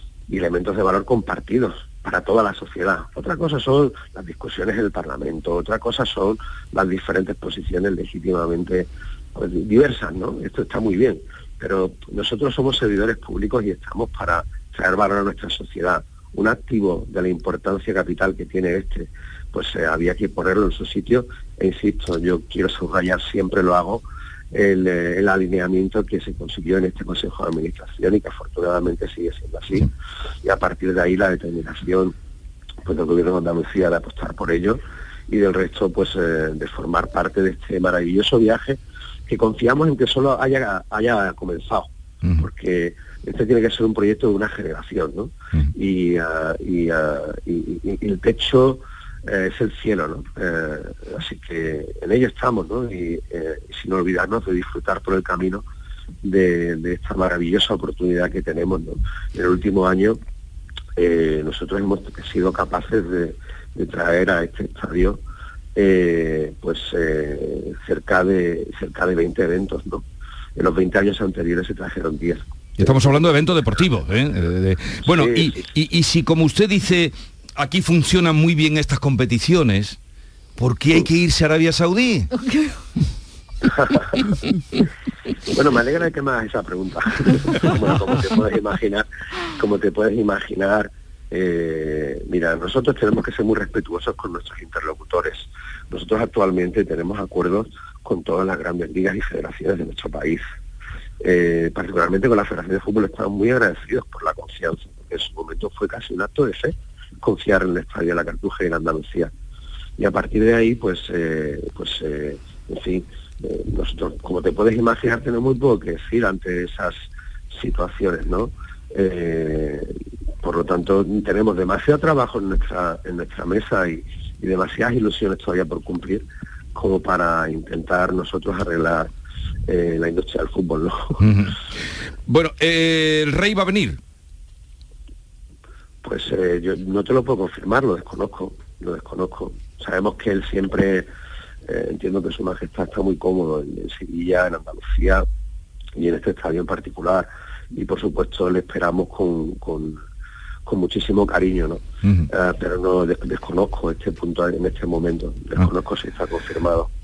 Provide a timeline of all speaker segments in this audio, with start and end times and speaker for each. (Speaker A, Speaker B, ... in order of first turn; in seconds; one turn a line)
Speaker A: 0.3-29.9
Speaker A: 30.4-32.1
Speaker A: 32.8-55.6
Speaker A: 56.2-60.2
Speaker A: 61.0-65.2
Speaker A: 65.8-70.0
Speaker A: 70.6-73.2
Speaker B: 72.8-80.0
Speaker A: 75.1-75.5
Speaker B: 80.6-82.3
Speaker A: 83.7-84.2
Speaker A: 85.5-89.0
Speaker A: 89.6-100.4
Speaker A: 101.2-109.3
Speaker A: 110.0-116.9
Speaker A: 117.5-119.9
Speaker A: 120.4-126.2
Speaker A: 126.7-129.1
Speaker A: 129.7-131.2
Speaker B: 131.2-131.5
Speaker B: 132.3-134.0
Speaker A: 136.0-141.1
Speaker A: 141.7-145.2
Speaker A: 145.9-150.0
Speaker A: 150.7-156.9